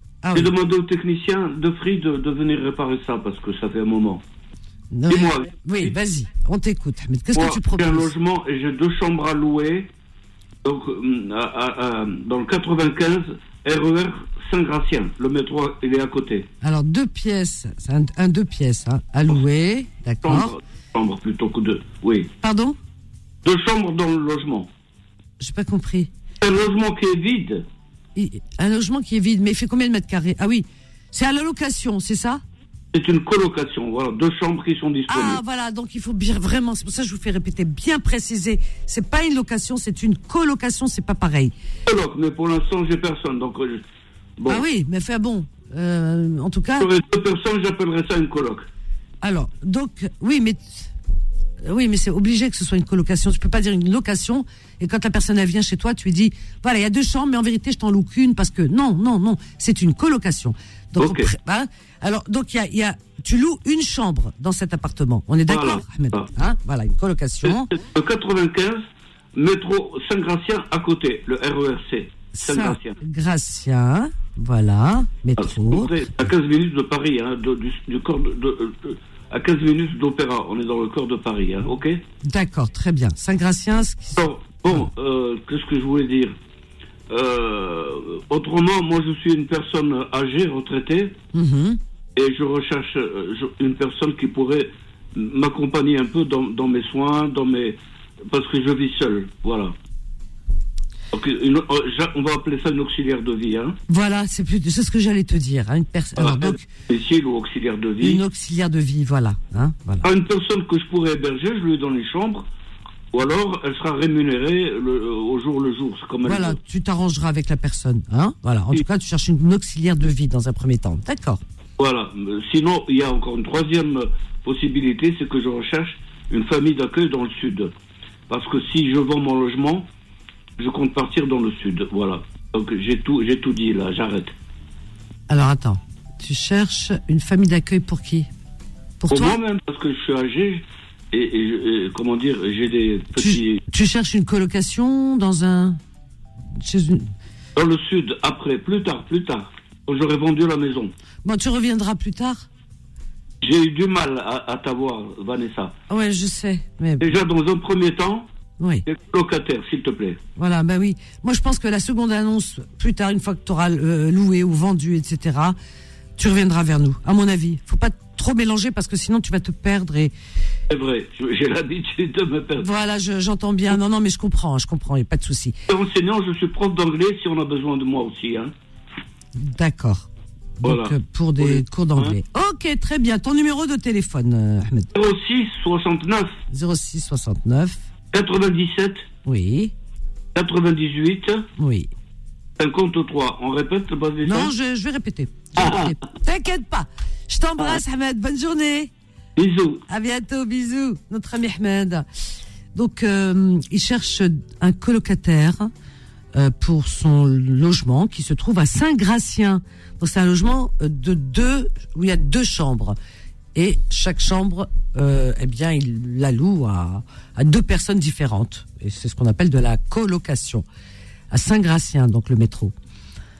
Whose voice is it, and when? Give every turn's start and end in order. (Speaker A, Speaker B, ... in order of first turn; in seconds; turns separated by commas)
Speaker A: 0.2-0.5, Speaker B: 0.3-4.2, Speaker A: 4.9-8.1, Speaker B: 5.1-5.9, Speaker B: 7.3-9.9, Speaker B: 10.6-16.5, Speaker A: 16.6-20.5, Speaker B: 20.2-22.3, Speaker A: 22.4-22.8, Speaker B: 23.4-24.7, Speaker A: 25.4-26.1, Speaker B: 26.4-27.6, Speaker A: 28.1-32.4, Speaker B: 32.9-35.4, Speaker A: 35.1-41.5, Speaker B: 41.9-43.8, Speaker A: 44.5-46.9, Speaker B: 46.8-48.6, Speaker A: 49.2-50.9, Speaker A: 51.6-67.7, Speaker B: 61.0-61.3, Speaker B: 65.5-66.3, Speaker B: 67.4-73.0, Speaker A: 72.3-76.0, Speaker B: 75.4-82.0, Speaker A: 82.2-84.8, Speaker B: 84.2-86.3, Speaker B: 87.1-91.2, Speaker A: 91.3-91.8, Speaker B: 92.2-97.8, Speaker B: 98.3-99.7, Speaker B: 101.1-103.8, Speaker A: 103.9-106.7, Speaker B: 106.2-108.2, Speaker A: 108.0-110.0, Speaker B: 110.0-112.5, Speaker B: 113.1-116.6, Speaker A: 116.2-121.4, Speaker B: 121.8-127.7, Speaker B: 128.3-129.9, Speaker B: 130.6-134.3, Speaker A: 135.3-138.3, Speaker A: 139.0-139.4, Speaker B: 139.1-143.6, Speaker A: 143.2-145.8, Speaker A: 146.5-147.1, Speaker B: 147.6-150.9, Speaker A: 151.2-152.5, Speaker B: 153.4-155.7, Speaker A: 155.9-157.1, Speaker B: 157.0-158.2, Speaker A: 158.6-158.8, Speaker B: 158.8-160.2, Speaker A: 160.4-165.6, Speaker A: 166.2-170.1, Speaker B: 170.7-172.7, Speaker A: 172.6-175.6, Speaker B: 175.7-178.5, Speaker A: 179.3-180.1, Speaker A: 180.6-184.9, Speaker B: 180.6-182.1, Speaker B: 184.9-186.4, Speaker A: 186.5-187.8, Speaker B: 188.1-189.1, Speaker A: 189.2-189.7, Speaker B: 190.3-191.4, Speaker A: 191.6-191.9, Speaker B: 192.6-194.5, Speaker A: 194.2-198.9, Speaker B: 195.6-196.0, Speaker B: 199.4-199.8, Speaker A: 199.9-202.1, Speaker A: 202.7-205.7, Speaker A: 206.3-213.0, Speaker A: 213.5-220.7, Speaker A: 221.3-222.7